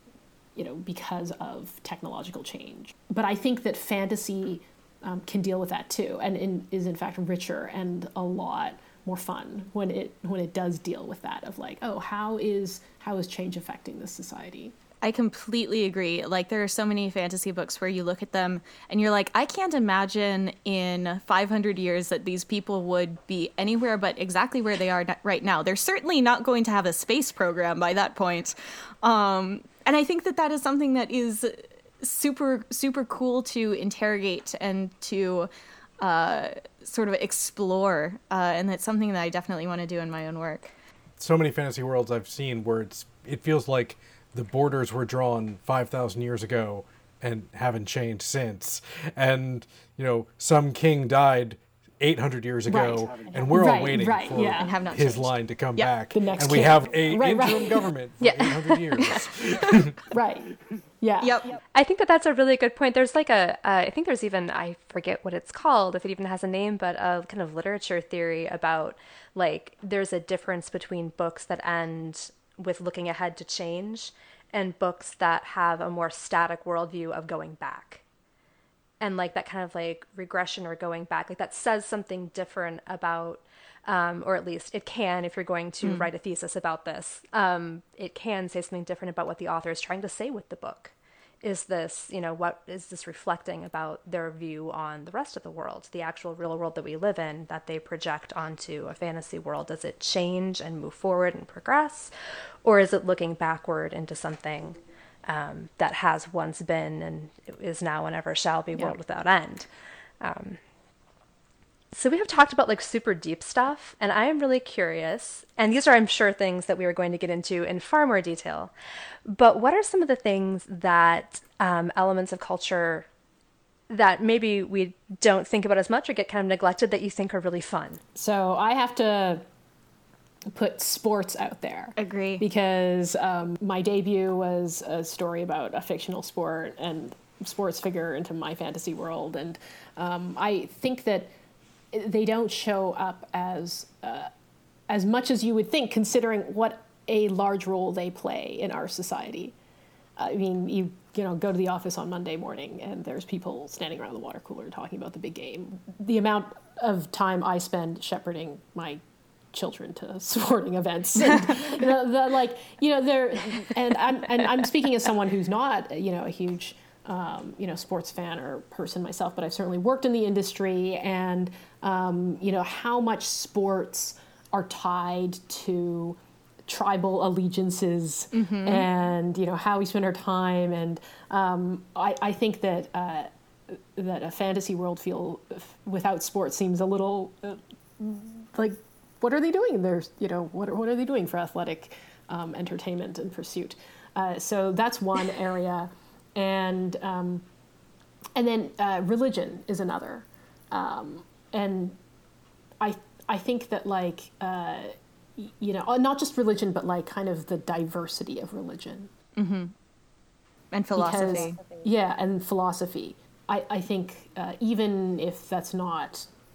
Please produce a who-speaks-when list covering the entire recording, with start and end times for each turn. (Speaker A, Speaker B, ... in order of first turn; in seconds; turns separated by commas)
Speaker A: 0.6-14.7, Speaker B: 15.0-35.5, Speaker B: 36.0-40.7, Speaker C: 41.2-60.0, Speaker A: 52.7-54.7, Speaker B: 54.5-55.9, Speaker A: 56.1-57.9, Speaker A: 60.1-61.4, Speaker B: 61.2-61.5, Speaker D: 61.7-78.0, Speaker D: 79.0-102.1, Speaker B: 85.8-86.1, Speaker D: 102.6-109.7, Speaker D: 110.2-110.6, Speaker D: 111.9-118.7, Speaker D: 119.2-123.1, Speaker D: 123.9-128.0, Speaker A: 128.1-129.4, Speaker A: 130.5-141.3, Speaker B: 132.0-132.4, Speaker A: 141.9-144.3, Speaker A: 144.9-149.5, Speaker A: 150.2-159.0, Speaker A: 159.5-197.4, Speaker B: 178.3-178.9, Speaker A: 198.3-202.0, Speaker A: 202.8-209.1, Speaker B: 209.3-209.7, Speaker B: 210.7-211.6, Speaker A: 210.9-216.3